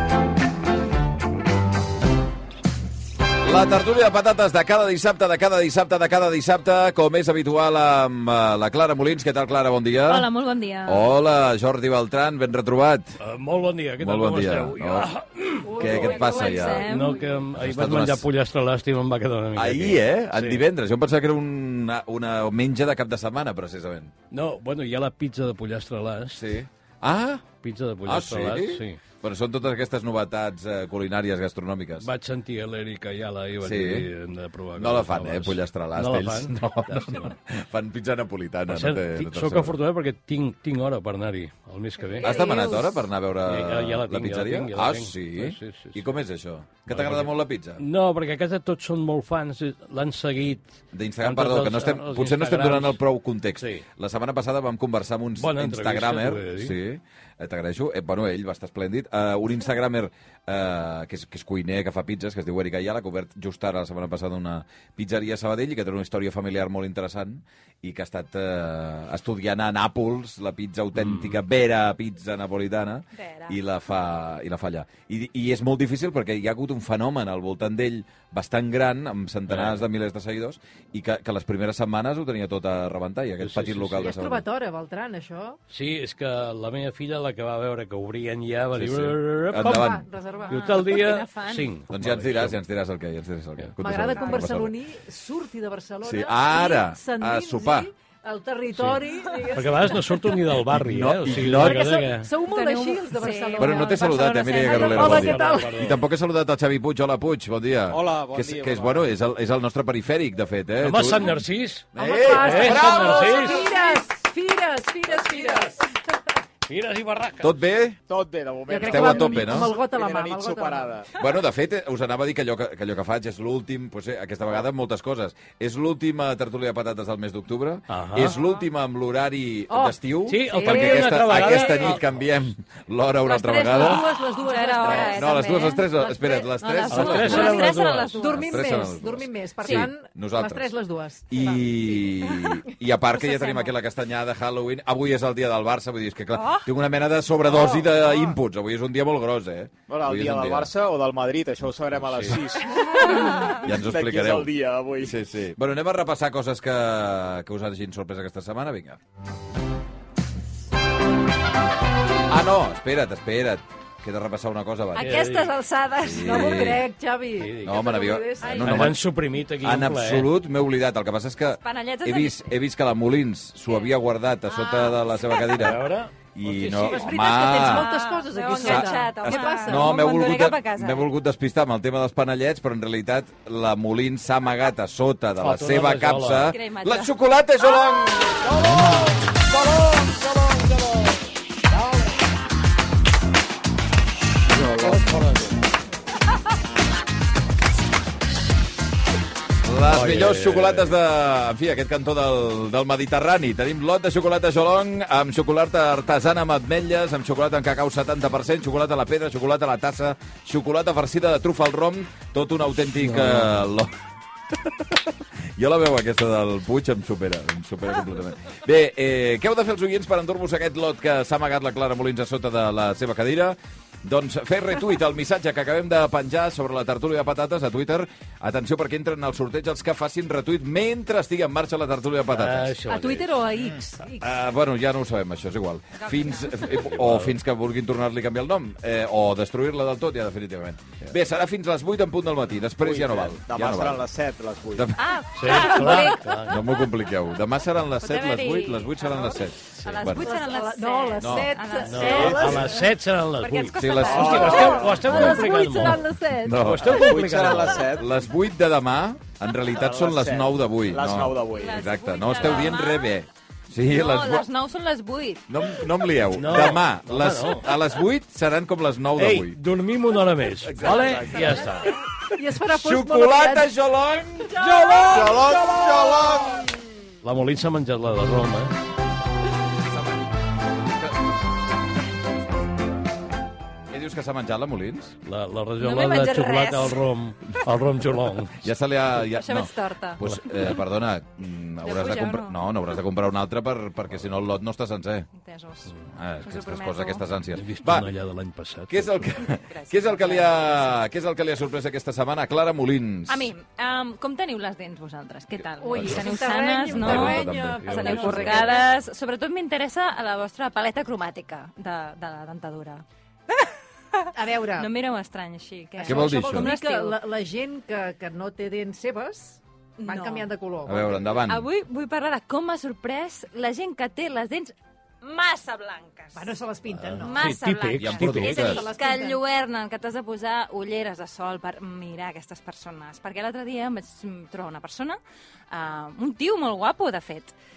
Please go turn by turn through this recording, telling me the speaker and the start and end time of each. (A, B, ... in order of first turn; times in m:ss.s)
0:03.4-0:10.3 A
0:10.1-0:11.1 B
0:10.8-0:13.2 A
0:13.2-0:15.8 C
0:14.0-0:15.1 A
0:15.6-0:17.3 D
0:15.8-0:16.9 A
0:15.8-0:17.2 B
0:16.8-0:20.6 C
0:17.5-0:18.3 A
0:19.5-0:24.1 A
0:24.3-0:26.4 C
0:26.3-0:27.5 A
0:27.6-0:29.0 C
0:28.0-0:32.1 A
0:32.0-0:37.4 C
0:33.6-0:34.1 A
0:34.8-0:39.8 A
0:38.7-0:42.3 C
0:42.1-0:43.1 B
0:42.2-0:47.8 A
0:43.4-0:46.0 C
0:46.9-0:50.7 C
0:50.9-1:24.4 A
0:51.2-0:53.0 C
0:53.6-0:53.8 C
0:55.4-0:56.8 C
1:11.0-1:11.3 C
1:13.1-1:13.6 B
1:19.5-1:19.8 C
1:23.4-1:24.1 C
1:24.0-1:25.6 D
1:25.7-1:29.9 C
1:28.7-1:30.0 A
1:29.5-1:30.9 D
1:30.3-1:31.7 B
1:30.5-1:32.6 C
1:31.9-1:34.7 A
1:33.8-1:40.3 D
1:36.0-1:37.9 A
1:39.5-1:42.3 C
1:40.6-1:42.0 A
1:41.5-1:45.7 D
1:42.4-1:45.3 B
1:43.6-1:51.4 A
1:44.8-1:46.0 C
1:47.9-1:49.1 E
1:50.8-1:53.7 C
1:51.9-1:53.5 A
1:52.0-1:55.8 D
1:55.2-1:55.8 C
1:56.6-1:57.5 C
1:57.4-1:58.0 A
1:58.1-2:01.1 E
1:58.7-2:00.9 D
1:58.8-1:59.7 A
2:01.2-2:14.0 A
2:07.9-2:08.4 C
2:09.7-2:11.9 D
2:10.3-2:12.0 C
2:13.3-2:15.7 D
2:13.6-2:18.8 B
2:14.8-2:17.7 A
2:16.9-2:18.3 C
2:17.3-2:17.6 D
2:18.2-2:22.7 D
2:18.4-2:20.7 A
2:21.3-2:30.7 A
2:23.2-2:23.7 B
2:26.3-2:26.7 B
2:27.5-2:28.4 D
2:29.9-2:35.1 E
2:32.0-2:32.4 C
2:32.9-2:33.6 B
2:33.2-2:39.0 A
2:42.3-2:45.3 A
2:44.9-2:46.5 B
2:45.0-2:45.5 C
2:46.0-2:46.8 A
2:46.2-2:48.6 D
2:47.4-2:47.8 C
2:47.6-2:49.0 A
2:48.4-2:48.9 B
2:48.6-2:50.3 C
2:49.6-2:57.9 A
2:51.6-2:52.5 B
2:53.7-2:53.9 B
2:54.5-2:55.8 B
2:55.5-2:56.1 C
2:56.5-3:00.2 D
2:57.5-3:01.1 B
2:58.6-3:08.4 A
3:05.4-3:06.5 C
3:06.4-3:08.4 B
3:08.4-3:11.2 C
3:11.7-3:12.1 C
3:14.5-3:15.6 C
3:19.6-3:33.9 A
3:19.8-3:20.9 C
3:34.5-3:52.8 A
3:52.3-3:53.3 C
3:52.9-3:54.3 D
3:54.2-4:04.0 A
3:56.0-3:56.7 B
3:56.7-3:57.4 C
4:02.8-4:04.9 E
4:04.7-4:05.9 A
4:05.0-4:06.7 B
4:05.3-4:06.6 C
4:06.4-4:10.2 A
4:08.0-4:15.3 B
4:10.1-4:12.8 D
4:11.2-4:11.5 A
4:11.8-4:16.1 C
4:12.2-4:12.6 A
4:13.7-4:15.4 A
4:14.1-4:15.0 E
4:14.9-4:16.9 D
4:16.4-4:17.3 A
4:16.6-4:17.9 C
4:16.9-4:18.2 E
4:17.9-4:24.4 A
4:19.6-4:21.8 E
4:21.5-4:23.2 B
4:23.9-4:26.1 B
4:25.5-4:29.6 A
4:26.3-4:27.7 C
4:29.2-4:31.9 C
4:30.6-4:31.2 A
4:30.8-4:31.8 E
4:32.3-4:33.7 D
4:32.3-4:36.7 A
4:34.6-4:35.3 B
4:35.1-4:36.6 E
4:37.2-4:38.7 C
4:43.9-4:45.2 A
4:45.2-4:48.7 C
4:45.8-4:47.0 B
4:48.6-4:55.3 A
4:49.3-4:50.2 B
4:50.2-4:50.6 C
4:51.8-4:52.5 B
4:55.3-4:57.2 B
4:56.1-4:58.1 A
4:57.5-4:59.4 C
4:58.9-5:03.5 A
4:59.4-5:00.9 B
5:03.3-5:17.2 B
5:05.8-5:08.9 D
5:06.9-5:08.7 A
5:07.0-5:08.7 C
5:14.3-5:14.9 D
5:16.0-5:21.3 D
5:16.0-5:16.7 A
5:20.0-5:20.5 B
5:20.8-5:21.7 A
5:21.5-5:26.5 B
5:26.3-5:27.4 D
5:27.0-5:28.7 C
5:27.2-5:35.2 B
5:28.0-5:28.8 A
5:28.4-5:29.4 D
5:35.7-5:37.5 B